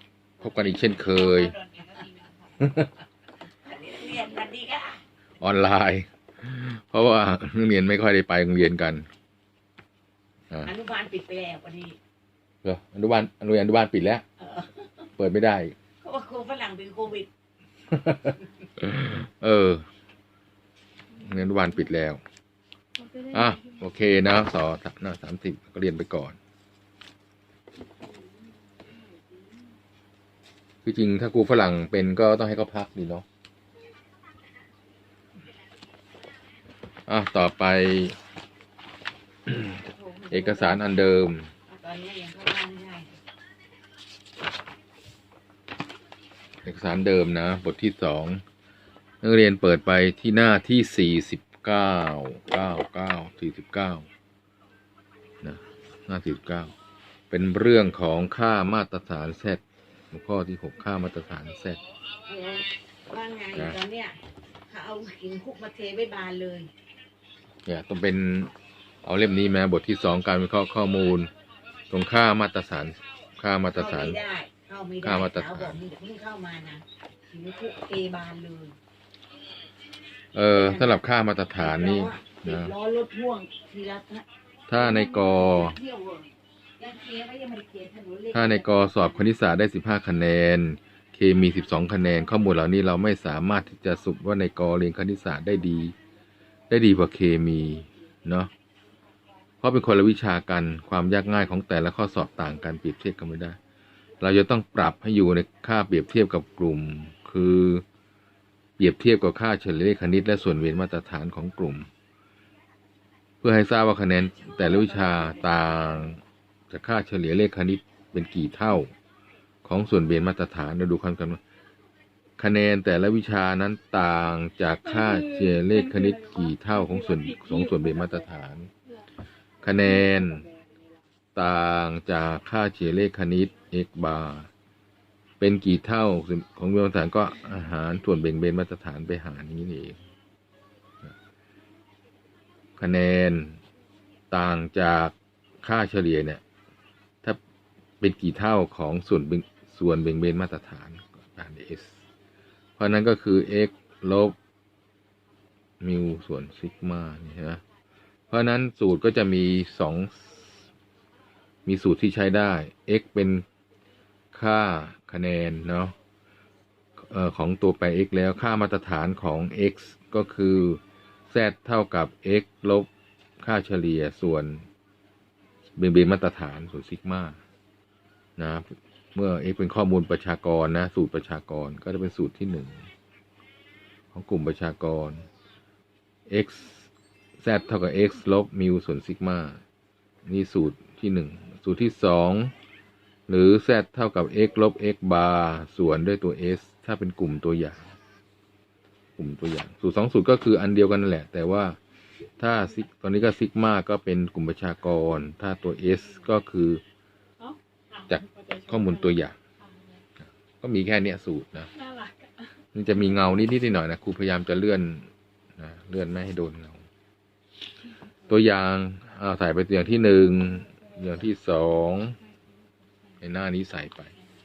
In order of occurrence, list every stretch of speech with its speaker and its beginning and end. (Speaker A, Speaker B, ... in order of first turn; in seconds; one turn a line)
Speaker A: 0.4-1.5
Speaker B: 1.0-2.3
Speaker A: 2.6-2.9
Speaker B: 3.6-5.0
Speaker A: 5.4-9.1
Speaker B: 10.6-12.0
Speaker A: 12.6-14.2
Speaker B: 14.4-14.9
Speaker A: 15.2-15.8
Speaker B: 16.0-17.3
Speaker A: 17.9-19.9
Speaker A: 21.2-22.2
Speaker C: 23.0-24.1
Speaker A: 23.3-26.4
Speaker C: 27.8-29.7
Speaker A: 30.8-33.2
Speaker A: 37.1-38.2
Speaker A: 39.5-41.5
Speaker B: 39.8-41.0
Speaker B: 41.7-43.1
Speaker A: 46.6-48.4
Speaker A: 49.2-54.1
Speaker A: 55.4-56.7
Speaker A: 57.3-61.8
Speaker B: 62.3-66.7
Speaker A: 67.7-68.5
Speaker A: 69.0-71.3
Speaker A: 71.9-74.2
Speaker B: 73.7-78.8
Speaker A: 75.0-75.8
Speaker A: 80.3-82.7
Speaker B: 80.5-89.0
Speaker A: 84.7-85.8
Speaker A: 88.3-96.0
Speaker A: 96.7-98.5
Speaker A: 99.6-103.6
Speaker A: 104.2-107.8
Speaker A: 108.8-111.9
Speaker A: 113.4-118.9
Speaker A: 119.6-121.4
Speaker A: 122.4-128.7
Speaker C: 124.9-128.2
Speaker A: 129.6-130.5
Speaker C: 129.7-130.6
Speaker A: 131.3-134.5
Speaker A: 135.4-140.0
Speaker A: 142.8-143.6
Speaker A: 144.3-146.4
Speaker A: 148.0-152.0
Speaker A: 152.8-154.4
Speaker A: 155.8-157.6
Speaker A: 158.3-160.5
Speaker A: 161.7-163.4
Speaker A: 164.3-165.9
Speaker A: 167.0-174.7
Speaker A: 175.8-177.4
Speaker A: 178.4-182.9
Speaker A: 184.1-185.3
Speaker A: 186.3-189.6
Speaker A: 190.2-192.5
Speaker A: 193.3-197.9
Speaker A: 199.2-201.8
Speaker A: 202.4-206.8
Speaker C: 207.4-210.0
Speaker A: 208.1-209.3
Speaker A: 210.6-211.7
Speaker C: 211.7-212.5
Speaker A: 212.7-216.8
Speaker A: 218.3-222.2
Speaker A: 223.2-224.1